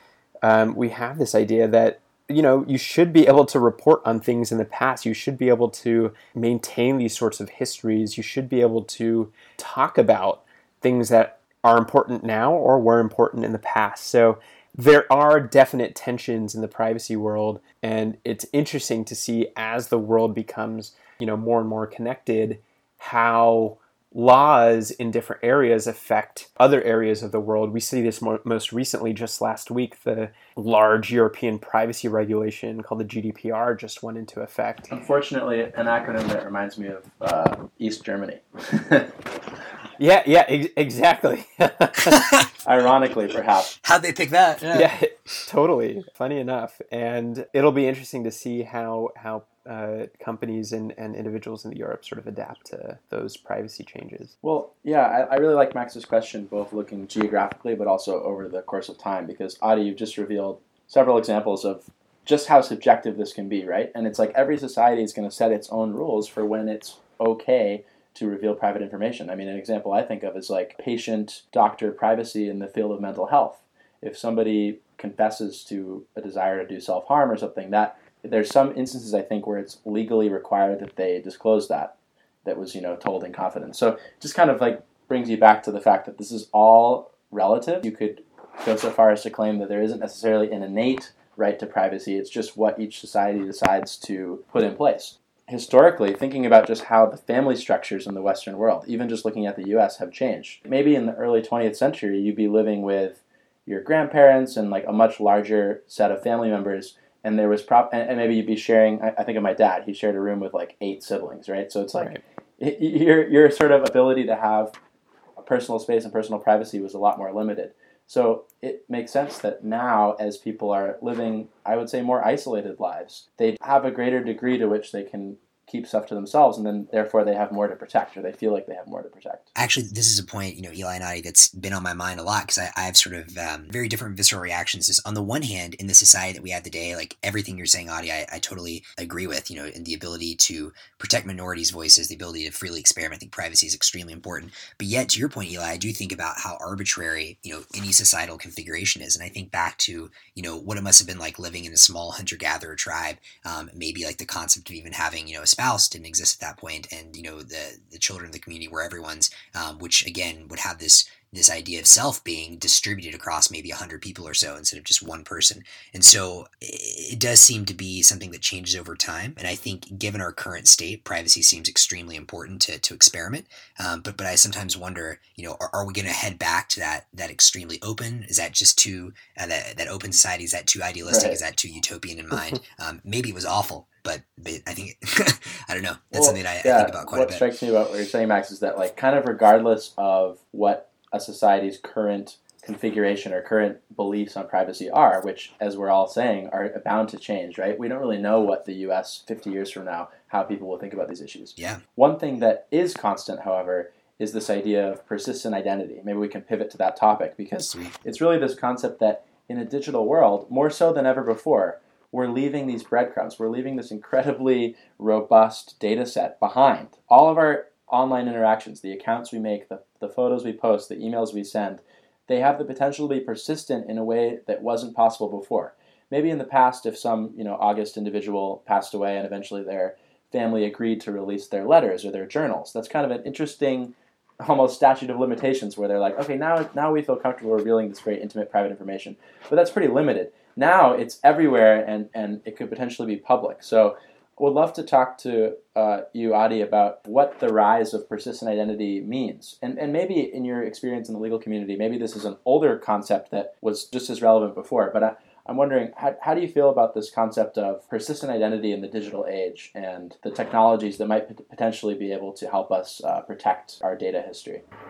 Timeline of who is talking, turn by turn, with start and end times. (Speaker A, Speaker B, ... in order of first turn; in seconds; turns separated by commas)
Speaker A: 0.4-34.9, Speaker B: 34.9-39.2, Speaker A: 40.0-42.4, Speaker B: 42.6-43.7, Speaker C: 43.8-44.9, Speaker A: 44.7-54.3, Speaker B: 54.4-81.9, Speaker B: 82.4-114.8, Speaker B: 115.4-129.5, Speaker C: 129.6-187.5, Speaker B: 181.1-181.4, Speaker B: 186.1-264.6, Speaker C: 201.6-201.8